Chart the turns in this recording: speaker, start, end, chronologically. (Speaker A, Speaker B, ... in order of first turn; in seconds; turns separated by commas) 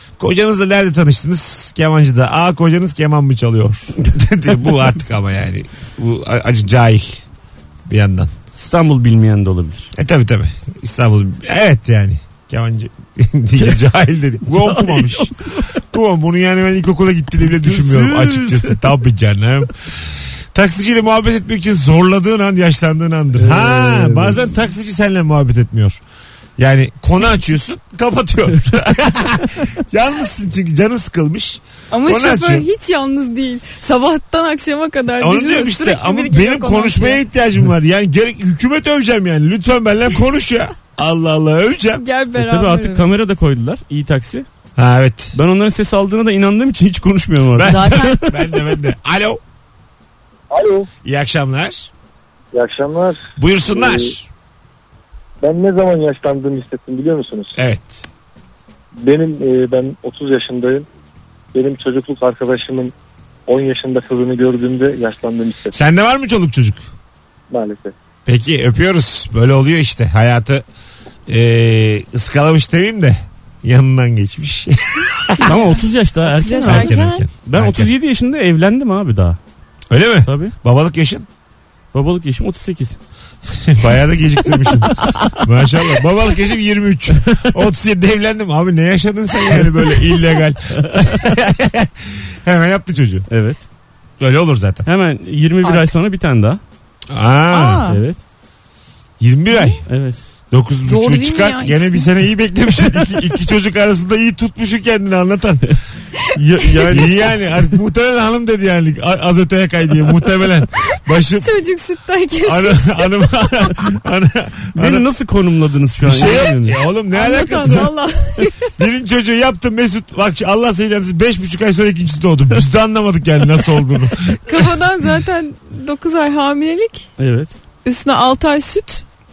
Speaker A: 0.2-7.2, Speaker A: 7.9-8.3, Speaker B: 8.6-9.9, Speaker A: 10.0-19.7, Speaker B: 14.5-15.7, Speaker B: 17.5-18.8, Speaker A: 20.5-26.0, Speaker B: 23.4-24.5, Speaker A: 26.6-32.7, Speaker C: 31.9-37.2, Speaker A: 35.2-42.0, Speaker C: 42.0-43.1, Speaker B: 42.4-44.5, Speaker A: 44.8-45.4, Speaker B: 45.3-48.6, Speaker A: 47.5-49.4, Speaker D: 50.5-50.9, Speaker A: 51.0-51.9, Speaker D: 52.5-54.1, Speaker A: 53.4-54.3, Speaker D: 55.4-57.6, Speaker A: 57.6-58.0, Speaker D: 59.0-60.9, Speaker D: 61.5-62.9, Speaker D: 63.5-65.7, Speaker A: 65.7-66.8, Speaker D: 67.5-67.9, Speaker A: 68.3-70.6, Speaker A: 71.3-75.6, Speaker B: 75.4-79.4, Speaker C: 76.3-77.3, Speaker A: 76.6-77.9, Speaker A: 79.9-81.3, Speaker B: 80.2-80.5, Speaker B: 81.9-83.0, Speaker A: 83.6-93.3, Speaker B: 90.8-91.3, Speaker B: 93.3-93.6, Speaker A: 94.2-94.8, Speaker B: 94.8-96.6, Speaker C: 95.6-95.9, Speaker A: 97.1-97.8, Speaker C: 97.5-98.0, Speaker B: 97.9-98.2, Speaker A: 99.2-99.8, Speaker B: 99.9-100.2, Speaker A: 100.5-105.7, Speaker C: 100.8-102.1, Speaker B: 106.3-107.4, Speaker C: 106.7-107.0, Speaker A: 106.9-111.5, Speaker C: 111.4-113.4, Speaker A: 112.5-115.1, Speaker B: 114.8-116.8, Speaker A: 116.0-117.9, Speaker C: 117.1-118.7, Speaker A: 118.8-124.7, Speaker C: 124.5-127.1, Speaker B: 127.2-127.5, Speaker C: 127.8-129.0